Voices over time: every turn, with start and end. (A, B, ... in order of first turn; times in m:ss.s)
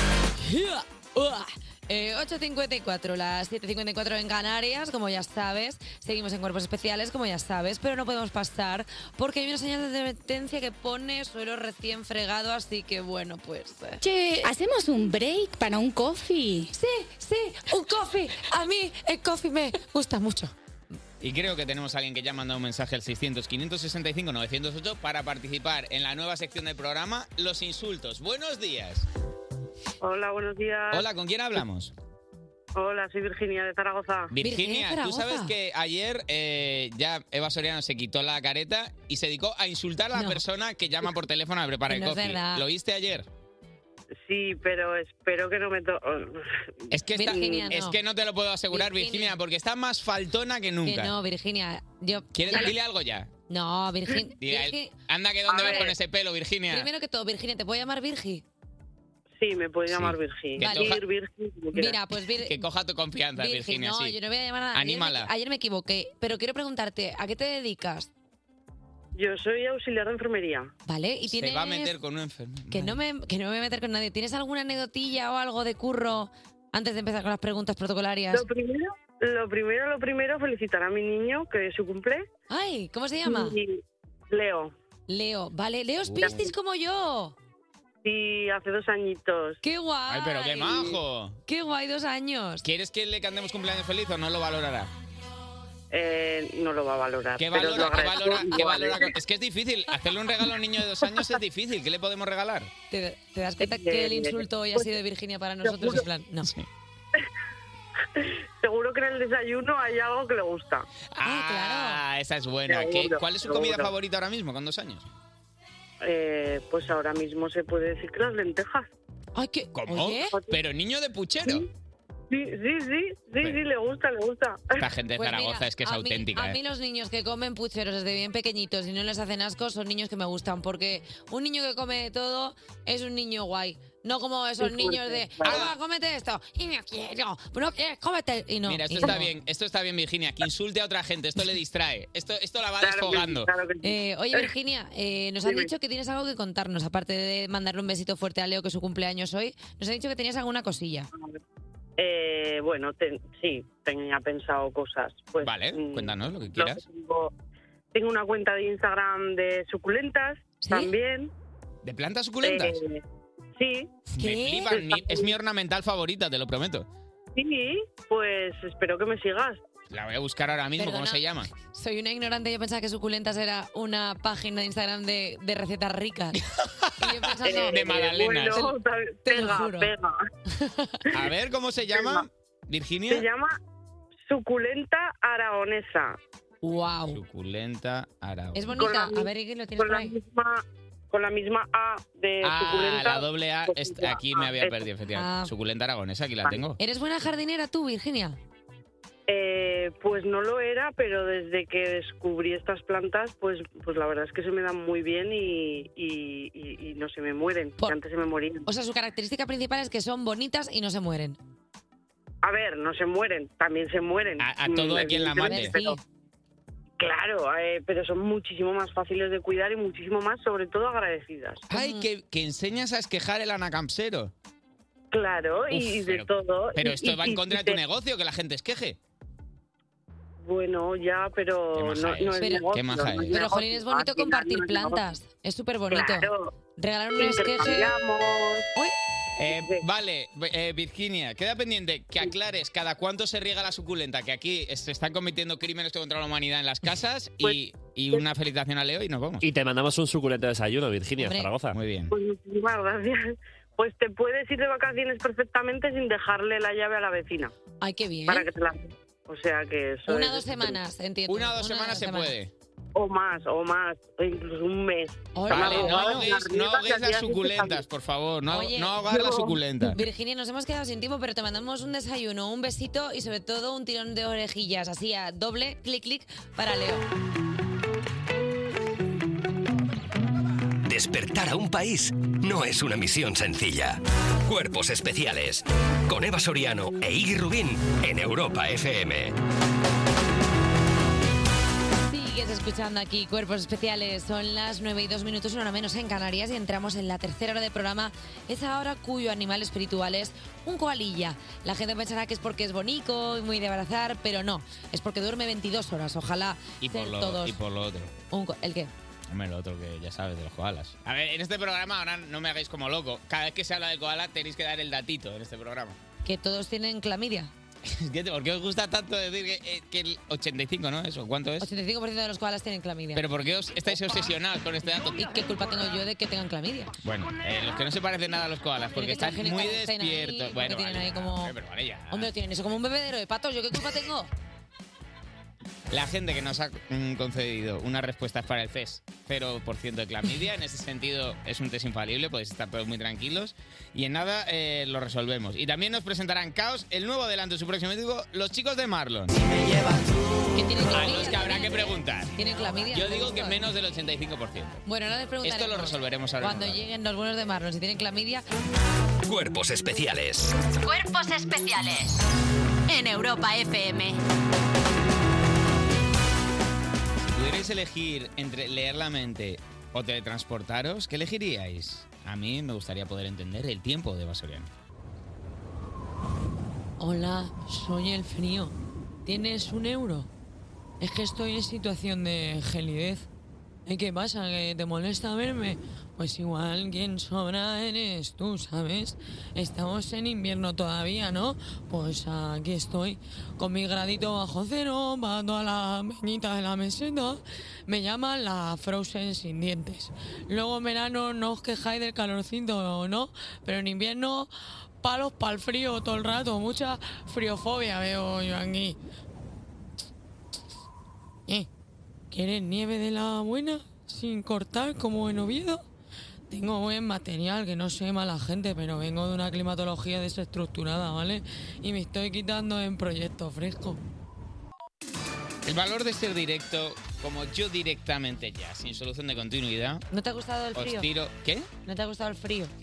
0:00.4-0:14.5 A
0:14.0-0:16.7 B
0:16.7-0:20.5 A
0:21.2-0:29.1 C
0:30.0-0:31.0 D
0:30.9-0:31.9 C
0:32.7-0:34.3 D
0:34.3-0:43.3 C
0:34.4-0:35.5 A
0:40.1-0:40.4 A
0:41.9-0:42.6 A
0:44.2-0:47.6 D
0:46.9-0:51.1 C
0:47.1-0:48.0 A
0:48.7-0:49.4 A
0:50.8-0:52.7 A
0:52.4-0:53.3 C
0:53.5-0:54.9 A
0:54.4-0:56.9 C
0:55.5-0:55.9 D
0:55.5-0:55.9 A
0:56.7-0:58.4 A
0:59.4-1:02.0 D
0:59.9-1:01.0 C
1:00.6-1:01.0 A
1:01.7-1:02.6 A
1:02.4-1:04.2 C
1:03.4-1:08.1 A
1:04.7-1:05.3 C
1:09.2-1:10.7 D
1:10.8-1:11.9 A
1:11.3-1:13.0 C
1:12.7-1:18.4 A
1:18.3-1:22.2 D
1:22.5-1:23.6 A
1:23.2-1:24.7 D
1:25.1-1:27.4 A
1:26.1-1:26.4 C
1:28.0-1:29.6 D
1:29.6-1:30.9 A
1:30.1-1:31.4 C
1:31.5-1:32.6 A
1:32.6-1:34.9 C
1:35.9-1:39.1 D
1:37.4-1:42.7 C
1:38.3-1:38.7 A
1:42.9-1:46.5 A
1:43.6-1:44.9 D
1:45.6-1:46.0 D
1:48.2-1:50.8 D
1:51.1-1:55.0 C
1:51.2-1:52.0 A
1:52.7-1:53.9 D
1:56.0-1:58.9 D
1:59.3-2:00.4 A
1:59.7-2:01.7 C
2:02.3-2:04.8 D
2:04.8-2:06.6 C
2:05.2-2:19.3 A
2:14.6-2:15.7 D
2:15.4-2:15.7 C
2:18.7-2:23.5 C
2:22.8-2:24.5 D
2:23.8-2:31.1 A
2:32.0-2:37.3 D
2:35.4-2:36.8 C
2:37.9-2:41.3 D
2:40.6-2:40.9 A
2:41.8-2:42.8 C
2:42.4-2:43.0 D
2:43.6-2:43.9 D
2:44.1-2:46.9 C
2:44.2-2:44.8 A
2:44.7-2:45.3 D
2:47.3-2:49.6 D
2:49.9-2:51.5 C
2:50.8-2:56.4 A
2:57.0-2:57.8 A
2:57.4-3:00.2 D
2:57.7-2:58.8 C
2:59.2-2:59.9 A
3:00.5-3:01.0 A
3:01.1-3:03.3 C
3:01.9-3:02.2 D
3:03.1-3:03.6 D
3:04.3-3:06.2 D
3:06.6-3:07.2 A
3:07.1-3:08.8 C
3:08.5-3:10.2 A
3:08.8-3:14.9 D
3:12.4-3:16.8 C
3:15.1-3:15.5 A
3:16.8-3:18.4 A
3:19.3-3:28.7 D
3:28.6-3:31.4 A
3:32.4-3:36.0 D
3:34.4-3:35.8 C
3:35.4-3:36.0 A
3:37.0-3:41.6 D
3:41.7-3:44.3 C
3:41.7-3:42.0 A
3:45.1-3:47.8 D
3:45.7-3:49.0 C
3:50.4-3:55.0 D
3:51.7-3:53.5 C
3:52.4-3:52.7 A
3:53.3-3:57.9 A
3:55.9-3:56.5 D
3:57.1-3:58.7 D
3:59.4-4:09.4 C
3:59.5-3:59.8 D
4:09.4-4:11.8 E
4:11.2-4:11.5 A
4:11.7-4:12.1 C
4:12.1-4:17.5 D
4:17.8-4:18.5 A
4:18.3-4:20.8 D
4:20.1-4:22.3 A
4:21.3-4:22.5 C
4:22.9-4:27.8 D
4:25.3-4:26.2 A
4:25.5-4:30.0 C
4:28.5-4:29.2 A
4:29.1-4:29.6 D
4:29.9-4:37.0 A
4:40.8-4:49.3 F
4:52.1-5:07.6 A
5:06.8-5:08.1 C
5:08.3-5:08.9 A
5:09.3-5:16.0 C
5:16.2-5:17.5 A
5:17.8-5:21.7 C
5:21.6-5:23.2 A
5:23.1-5:25.5 C
5:25.0-5:26.9 A
5:27.0-5:32.3 C
5:28.9-5:31.5 A
5:32.1-5:34.3 A
5:35.9-5:49.4 C
5:50.5-5:53.6 A
5:50.9-5:52.4 C
5:52.9-5:54.8 C
5:54.8-5:58.4 A
5:55.4-5:56.8 C
5:59.2-6:00.6 F
6:00.8-6:02.2 G
6:02.9-6:04.2 G
6:07.3-6:14.7 C
6:17.0-6:18.7 A
6:19.2-6:20.3 A
6:21.0-6:23.3 A
6:23.8-6:44.5 A
6:45.0-6:49.0 A
6:52.3-6:55.8 A
6:56.5-7:04.0 A
7:05.6-7:10.0 C
7:10.1-7:11.1 A
7:10.7-7:11.7 C
7:11.8-7:12.7 A